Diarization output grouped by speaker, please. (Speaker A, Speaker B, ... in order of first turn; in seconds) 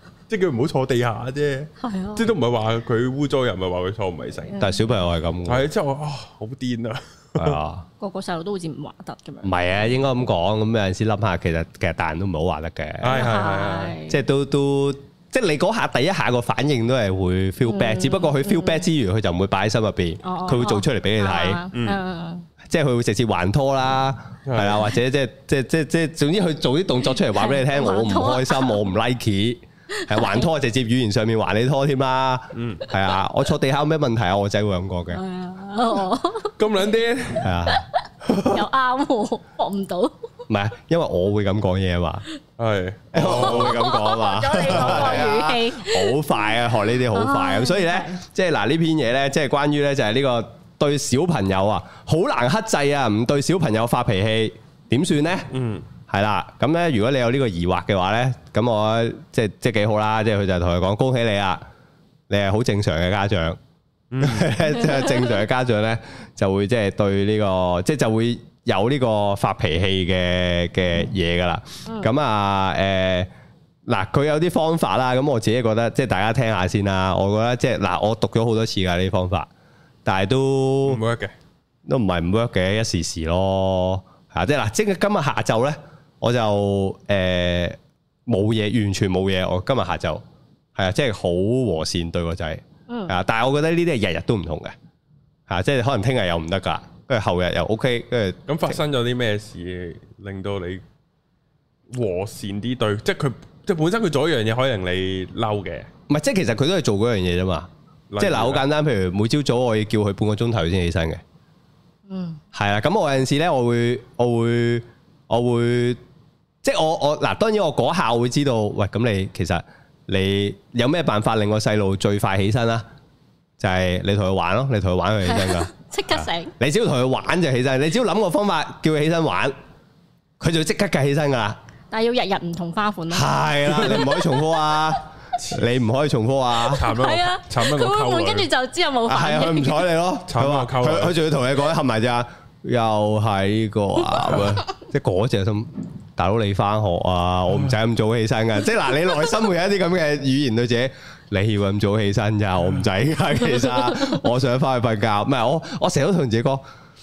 Speaker A: 0.3-4.6, 5.5-7.6, 13.0-14.0, 21.7-22.0, 24.5-24.8, 32.5-32.9, 36.6-37.5, 38.2-38.6, 42.6-43.8, 44.8-45.3, 55.5-55.9, 64.1-64.6, 80.8-81.3, 98.5-100.8, 101.9-105.9, 108.1-108.7, 135.4-135.6, 136.7-138.5, 140.3-141.2
Speaker B: 1.8-2.3, 4.5-4.9, 8.0-10.0, 13.1-14.2, 17.6-18.9, 20.2-22.5, 27.4-28.8, 30.0-30.5, 35.1-36.6, 38.4-40.2, 43.2-48.2, 64.9-65.2, 71.9-72.1, 92.9-93.2, 112.1-112.4, 125.2-126.5, 131.9-134.4, 136.7-139.9
Speaker C: 4.6-5.7, 7.4-7.8, 9.4-13.2, 14.1-21.6, 22.6-35.2, 37.4-37.9, 40.5-42.2, 43.1-55.5, 56.1-61.6, 62.3-63.6, 64.2-73.3, 73.9-79.5, 80.0-81.0, 81.9-90.2, 90.8-94.8, 95.5-98.8, 106.1-107.7, 108.2-111.2, 112.5-116.0, 116.6-122.8, 123.6-129.6, 130.4-131.6, 133.1-136.8, 139.1-156.6